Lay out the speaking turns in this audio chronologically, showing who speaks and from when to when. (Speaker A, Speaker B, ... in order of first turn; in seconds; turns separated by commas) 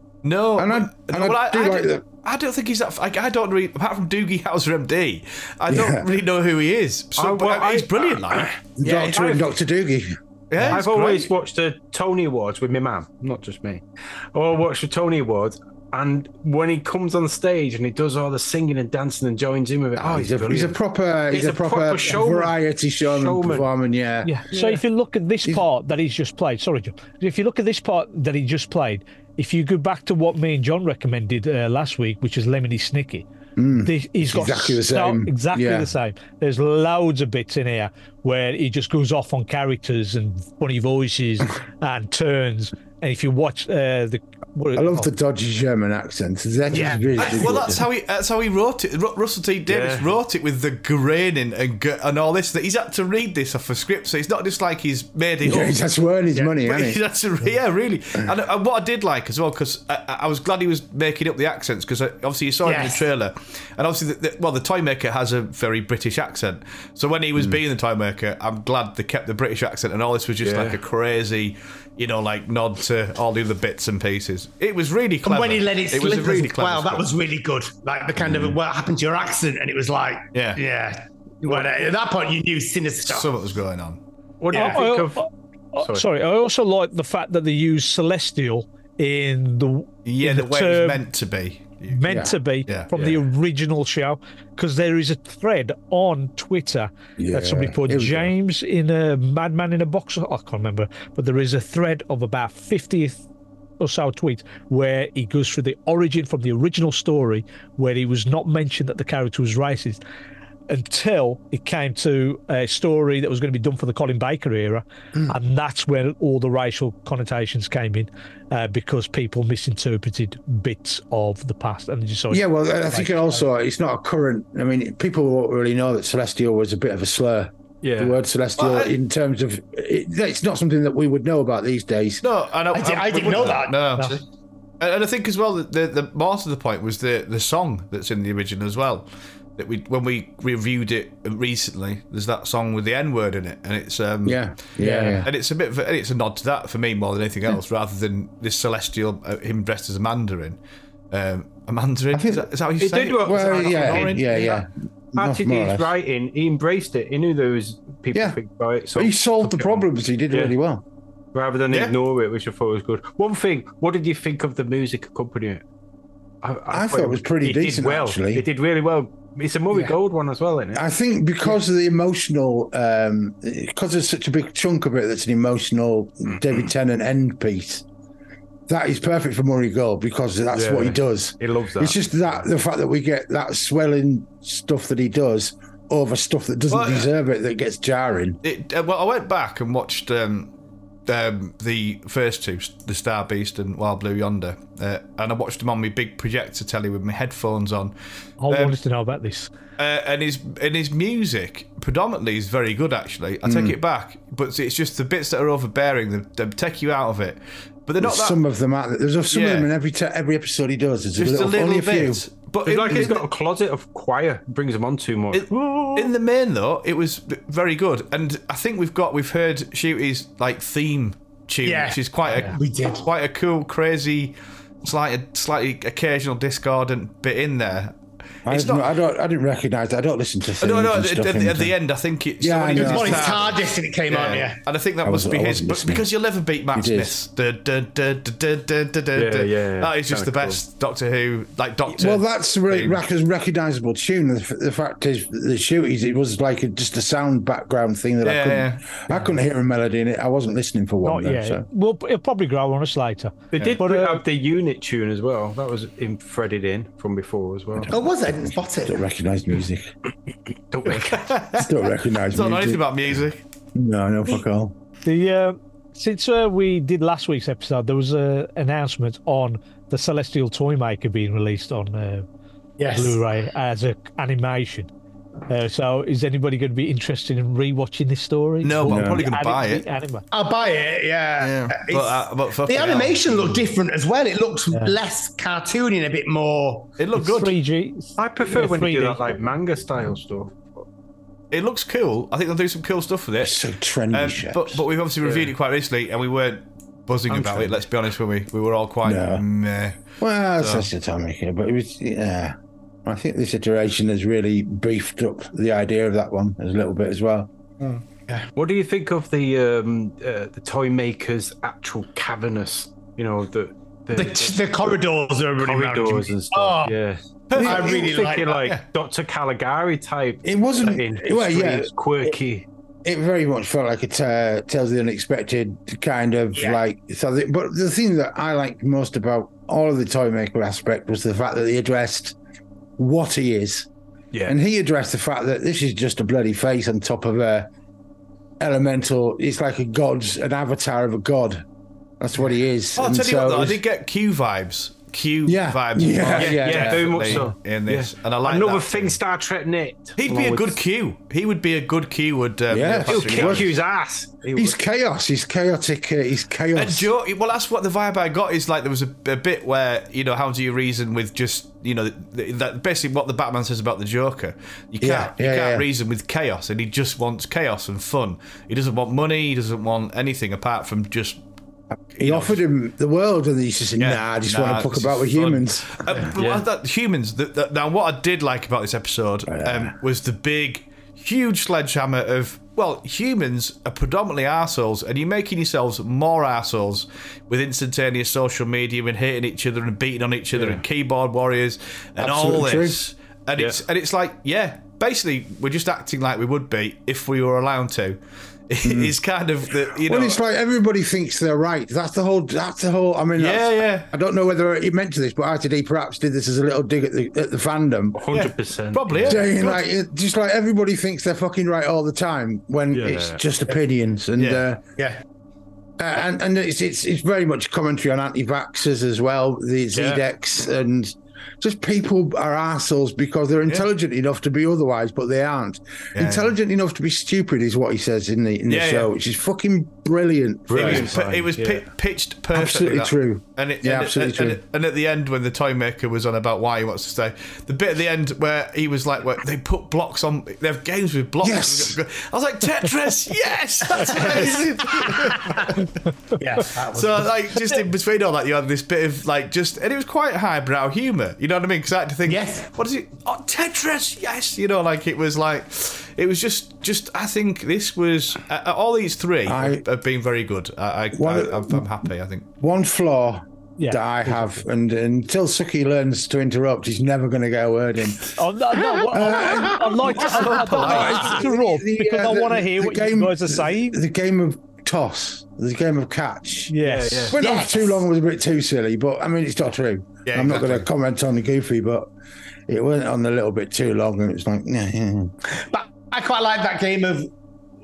Speaker A: 0.2-9.2, Speaker B: 0.6-2.0, Speaker B: 5.7-6.1, Speaker C: 7.2-8.2, Speaker B: 8.8-10.8, Speaker C: 8.9-9.5, Speaker A: 10.5-11.3, Speaker C: 10.6-13.8, Speaker C: 14.3-20.8, Speaker B: 20.0-24.4, Speaker C: 21.3-23.7, Speaker D: 24.2-33.3, Speaker C: 24.5-24.8, Speaker B: 33.6-35.9, Speaker D: 33.8-45.1, Speaker B: 44.8-47.9, Speaker E: 46.7-47.5, Speaker A: 47.2-55.8, Speaker C: 49.7-50.1, Speaker B: 55.4-57.0, Speaker A: 56.6-77.1, Speaker E: 62.6-63.0, Speaker C: 70.4-70.8, Speaker E: 75.2-83.3, Speaker A: 80.3-80.6, Speaker A: 83.0-84.0, Speaker C: 84.4-85.2, Speaker E: 84.5-84.8, Speaker D: 84.5-91.0, Speaker C: 85.8-86.1, Speaker A: 90.0-92.9, Speaker D: 91.9-103.2, Speaker B: 92.1-92.3, Speaker C: 92.9-93.2, Speaker B: 97.2-98.3, Speaker D: 103.8-110.0, Speaker D: 110.7-123.4, Speaker B: 122.3-132.2, Speaker C: 127.8-128.2, Speaker A: 128.6-128.9, Speaker A: 132.2-134.2, Speaker E: 132.7-133.8, Speaker A: 134.8-139.1, Speaker A: 139.6-150.6, Speaker B: 144.2-145.3, Speaker C: 144.8-145.2, Speaker A: 151.1-154.3, Speaker B: 152.1-152.5, Speaker C: 152.8-154.6, Speaker B: 153.2-155.9, Speaker C: 155.2-160.5, Speaker B: 158.1-158.4, Speaker B: 158.9-160.8, Speaker C: 161.3-165.6, Speaker C: 166.4-170.8, Speaker B: 166.7-168.4, Speaker B: 170.7-177.8, Speaker B: 178.7-188.4, Speaker C: 180.5-182.4, Speaker A: 186.7-187.1, Speaker A: 188.4-190.5, Speaker A: 191.1-197.9, Speaker D: 198.4-199.5, Speaker A: 198.5-198.8, Speaker A: 199.8-208.4, Speaker B: 203.4-203.8, Speaker B: 208.0-212.2, Speaker A: 209.3-209.7, Speaker A: 211.2-213.2, Speaker C: 212.6-215.9, Speaker A: 215.3-228.9, Speaker E: 221.6-223.1, Speaker B: 228.5-231.7, Speaker A: 230.6-243.0, Speaker B: 232.4-233.4, Speaker E: 232.8-234.6, Speaker B: 235.0-236.1, Speaker B: 236.7-237.2, Speaker C: 239.1-240.6, Speaker B: 242.0-251.7, Speaker A: 248.2-249.0, Speaker D: 251.0-254.2, Speaker C: 253.5-257.9, Speaker E: 257.9-259.0, Speaker B: 258.8-259.9, Speaker C: 260.7-261.3, Speaker A: 261.1-261.7, Speaker B: 261.6-262.8, Speaker A: 262.3-263.4, Speaker B: 263.8-264.8, Speaker D: 265.1-272.2, Speaker E: 272.8-273.2, Speaker D: 272.9-274.9, Speaker D: 275.5-280.2, Speaker A: 278.6-279.9, Speaker B: 278.9-279.2, Speaker E: 280.3-286.9, Speaker A: 281.4-283.7, Speaker A: 287.0-287.5, Speaker D: 287.1-289.4, Speaker C: 288.2-290.9, Speaker A: 291.5-293.6, Speaker B: 293.4-294.8, Speaker A: 294.1-300.0, Speaker C: 295.2-295.5, Speaker C: 297.3-297.7, Speaker B: 299.0-299.4, Speaker B: 300.2-302.6, Speaker A: 300.6-300.9, Speaker B: 303.1-307.5, Speaker C: 308.6-314.9, Speaker E: 314.1-317.0, Speaker C: 315.6-322.6, Speaker A: 317.5-318.8, Speaker E: 317.6-318.6, Speaker B: 320.4-321.9, Speaker B: 323.1-332.4, Speaker E: 326.6-326.8, Speaker B: 333.0-333.9, Speaker B: 334.5-337.7, Speaker B: 338.6-341.6, Speaker B: 342.2-343.8, Speaker A: 343.0-349.2, Speaker B: 345.5-347.5, Speaker C: 346.3-350.8, Speaker A: 350.2-353.7, Speaker B: 352.7-353.7, Speaker C: 353.1-354.8, Speaker B: 354.6-357.1, Speaker A: 356.8-371.4, Speaker B: 365.0-365.9, Speaker B: 372.1-376.3, Speaker A: 372.2-372.6, Speaker A: 374.0-400.4, Speaker C: 376.3-376.6, Speaker B: 379.5-379.9, Speaker C: 390.5-390.8, Speaker B: 392.2-393.0, Speaker C: 393.6-393.8, Speaker B: 398.9-399.1, Speaker B: 400.0-408.2, Speaker A: 403.4-404.1, Speaker C: 408.1-409.5, Speaker A: 408.3-409.8, Speaker B: 409.2-414.8, Speaker C: 412.9-413.4, Speaker A: 414.4-414.6, Speaker B: 416.0-431.1, Speaker C: 419.9-420.2, Speaker A: 426.1-426.5, Speaker A: 428.7-429.1, Speaker C: 430.7-431.9, Speaker A: 430.7-445.9, Speaker B: 432.5-434.6, Speaker B: 441.4-442.0, Speaker E: 444.0-445.7, Speaker E: 446.4-447.3, Speaker A: 446.8-462.5, Speaker E: 452.2-452.7, Speaker B: 459.5-459.8, Speaker B: 461.1-461.9, Speaker B: 462.6-468.4, Speaker D: 463.8-464.6, Speaker D: 468.4-474.0, Speaker B: 469.1-476.7, Speaker A: 470.2-471.2, Speaker D: 476.7-477.4, Speaker C: 476.8-477.4, Speaker B: 477.3-482.1, Speaker E: 477.4-478.0, Speaker A: 480.2-480.9, Speaker B: 482.7-485.3, Speaker E: 485.5-487.3